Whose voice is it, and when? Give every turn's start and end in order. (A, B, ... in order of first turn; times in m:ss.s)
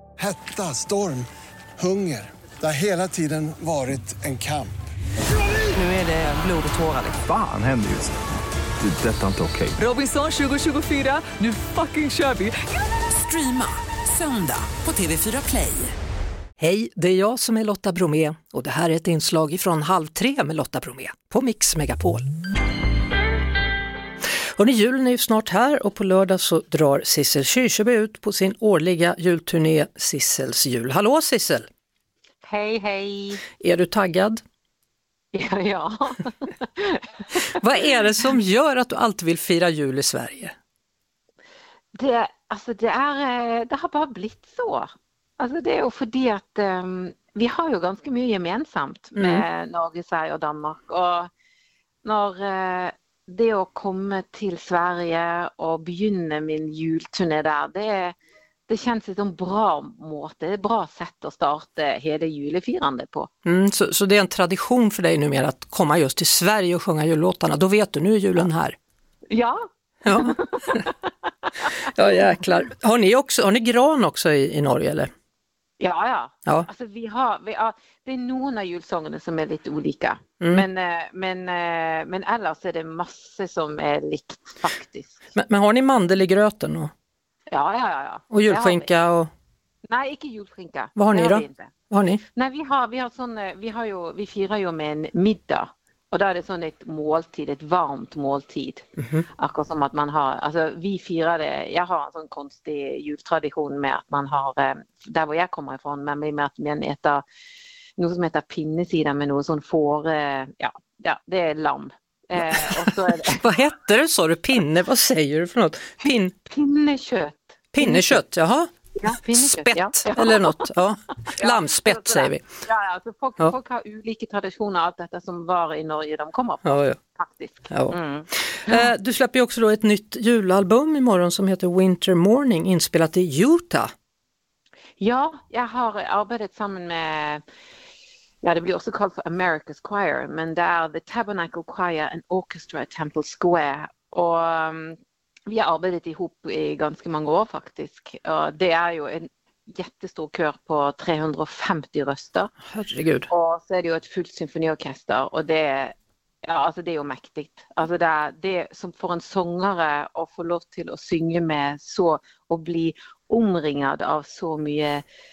0:00.2-0:01.3 A
0:01.8-0:04.7 A
0:05.7-0:07.2 B
0:07.2-0:08.2 C
0:08.8-0:09.8 C
0:09.8-0:15.9 B
0:16.6-0:22.2 D
0:24.6-0:31.6 D
0:32.4-0:33.4 E
0:33.4-0:34.4 D
0:35.3-0:37.6 E
0:37.5-0:40.5 D
0:42.0-0:44.9 E
0:45.4-0:51.3 E
0:49.2-0:49.4 D
0:52.0-0:58.1 E
0:58.7-1:03.3 E
1:03.4-1:08.8 D
1:09.3-1:11.3 E
1:10.0-1:10.8 D
1:11.8-1:15.1 D
1:15.8-1:25.2 E
1:20.4-1:20.7 D
1:25.4-1:26.9 D
1:27.5-1:28.9 E
1:28.3-1:29.3 D
1:29.9-1:31.7 E
1:31.0-1:32.2 D
1:32.4-1:47.2 E
1:48.0-1:53.4 E
1:52.5-1:56.4 D
1:56.5-1:58.2 E
1:57.7-2:02.4 D
1:59.0-2:00.7 E
2:01.3-2:08.8 E
2:06.6-2:07.0 D
2:07.7-2:13.9 D
2:15.0-2:17.4 E
2:18.4-2:32.5 E
2:32.6-2:33.3 D
2:33.3-2:45.0 E